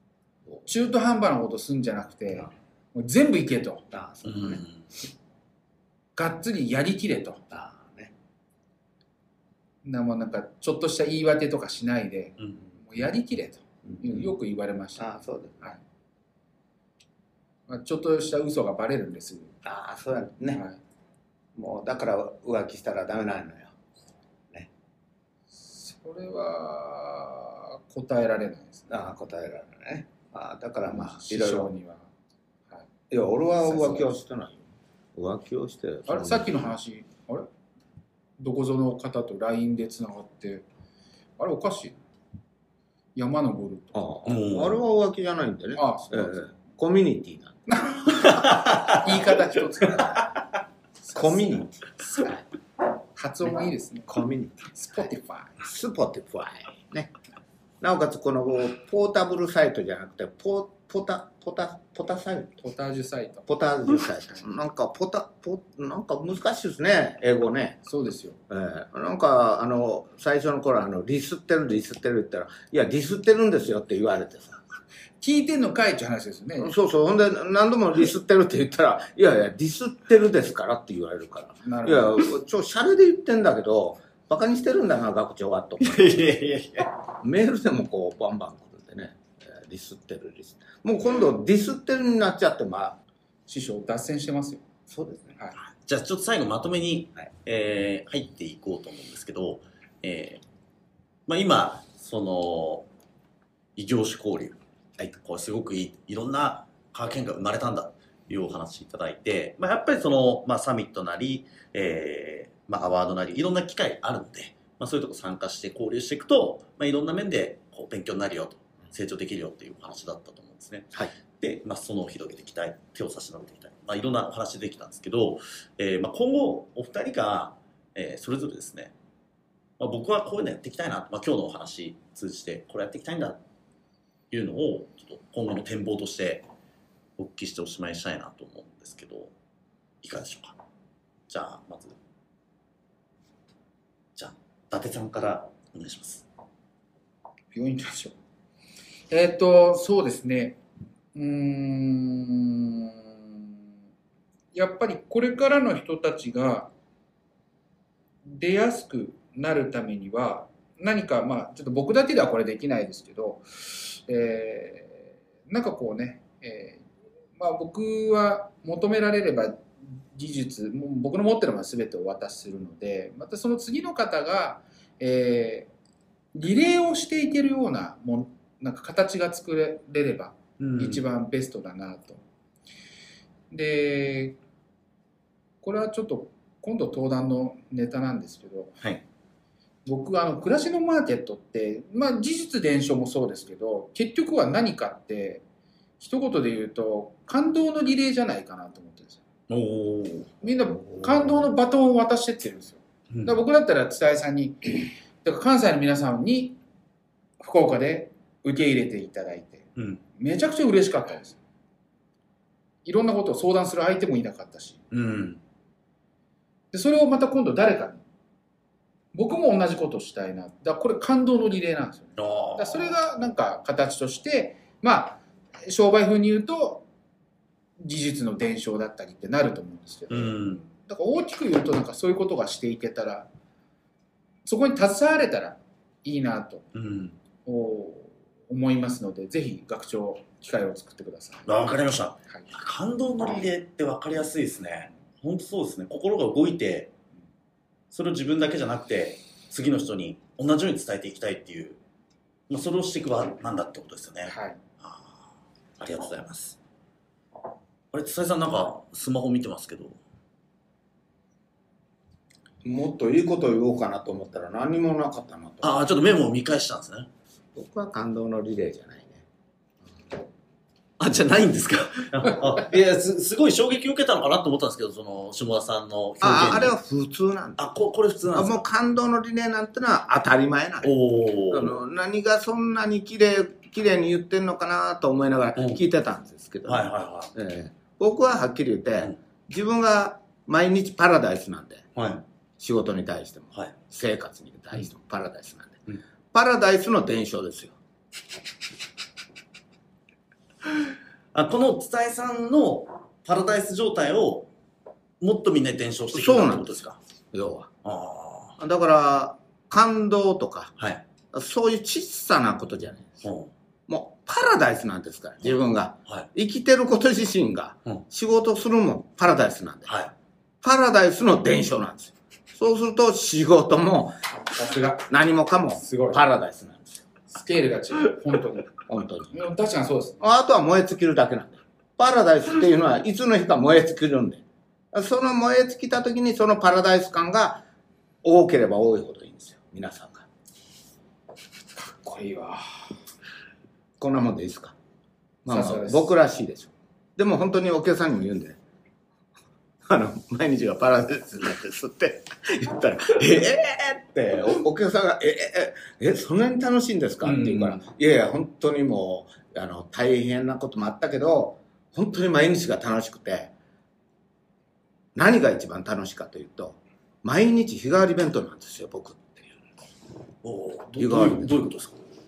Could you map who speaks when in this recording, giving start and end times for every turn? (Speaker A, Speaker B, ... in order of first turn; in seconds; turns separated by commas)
Speaker A: 0.7-3.8, Speaker B: 3.9-4.6, Speaker C: 4.3-4.8, Speaker A: 6.2-7.4, Speaker B: 7.5-8.1, Speaker A: 9.8-15.1, Speaker B: 13.9-14.2, Speaker B: 15.0-15.8, Speaker A: 17.7-19.5, Speaker B: 19.6-20.6, Speaker A: 20.5-20.8, Speaker B: 21.6-23.8, Speaker A: 25.5-28.9, Speaker B: 28.9-31.7, Speaker A: 30.9-32.1, Speaker B: 33.1-34.6, Speaker A: 33.6-34.1, Speaker B: 35.2-36.6, Speaker A: 36.1-37.5, Speaker A: 38.4-40.7, Speaker A: 41.4-42.0, Speaker A: 43.2-44.0, Speaker B: 43.9-48.3, Speaker C: 44.3-44.8, Speaker A: 45.8-46.5, Speaker A: 47.7-50.3, Speaker C: 48.3-49.0, Speaker A: 51.0-51.7, Speaker B: 51.1-52.5, Speaker A: 53.2-54.2, Speaker B: 54.1-54.7, Speaker A: 54.7-55.6, Speaker B: 55.6-57.1, Speaker B: 57.8-62.6, Speaker A: 62.6-63.5, Speaker B: 63.5-67.8, Speaker A: 67.9-68.4, Speaker B: 68.5-74.6, Speaker A: 75.2-76.7, Speaker B: 76.6-86.2, Speaker A: 81.6-82.2, Speaker C: 85.8-86.9, Speaker B: 87.2-93.0, Speaker A: 93.5-94.6, Speaker B: 94.9-95.4, Speaker C: 95.6-100.4, Speaker C: 101.3-102.9, Speaker C: 103.8-104.5, Speaker C: 105.2-128.9, Speaker C: 129.8-133.4, Speaker C: 134.3-136.4, Speaker C: 137.2-139.3, Speaker C: 140.0-140.6, Speaker C: 141.3-141.9, Speaker C: 144.2-146.3, Speaker A: 147.5-148.2, Speaker A: 149.1-150.6, Speaker A: 151.1-153.4, Speaker A: 154.5-156.7, Speaker A: 158.2-166.8, Speaker A: 167.4-175.7, Speaker A: 176.3-182.2, Speaker C: 180.6-181.0, Speaker A: 183.5-184.4, Speaker A: 185.6-188.8, Speaker A: 189.9-195.4, Speaker A: 196.0-199.2, Speaker C: 199.5-200.4, Speaker A: 200.4-206.6, Speaker C: 203.1-203.4, Speaker A: 207.4-211.4, Speaker C: 209.8-210.0, Speaker A: 212.8-214.8, Speaker C: 214.9-215.4, Speaker A: 216.7-218.0, Speaker A: 219.1-226.8, Speaker C: 222.2-222.9, Speaker A: 227.8-233.3, Speaker C: 230.1-230.6, Speaker A: 234.4-236.6, Speaker C: 236.7-237.2, Speaker A: 237.4-241.5, Speaker C: 241.4-246.9, Speaker C: 247.9-251.8, Speaker C: 252.5-256.6, Speaker A: 254.3-254.6, Speaker C: 257.9-260.0, Speaker B: 262.6-265.8, Speaker C: 265.6-267.1, Speaker B: 267.6-269.3, Speaker C: 271.0-276.7, Speaker B: 276.2-277.6, Speaker C: 277.6-278.6, Speaker B: 278.3-280.9, Speaker C: 280.8-281.7, Speaker B: 281.5-291.9, Speaker C: 285.6-285.8, Speaker C: 286.7-287.3, Speaker C: 291.9-292.2, Speaker B: 292.6-297.8, Speaker C: 301.3-304.5, Speaker C: 305.2-307.0, Speaker B: 306.1-307.7, Speaker C: 307.8-308.6, Speaker B: 308.6-310.7, Speaker B: 311.3-313.2, Speaker C: 313.2-313.5, Speaker B: 313.9-319.9, Speaker C: 319.9-320.1, Speaker B: 320.6-324.2, Speaker A: 324.4-325.1, Speaker B: 325.1-327.1, Speaker A: 325.7-326.2, Speaker A: 327.3-328.8, Speaker B: 328.9-329.3, Speaker A: 329.3-330.2, Speaker B: 330.2-337.6, Speaker B: 338.2-340.3, Speaker A: 341.8-342.9, Speaker B: 344.0-344.8, Speaker B: 345.4-348.6, Speaker A: 345.5-346.1, Speaker B: 349.9-363.5, Speaker C: 357.2-357.8, Speaker B: 365.1-369.6, Speaker C: 370.4-372.0, Speaker B: 371.0-371.5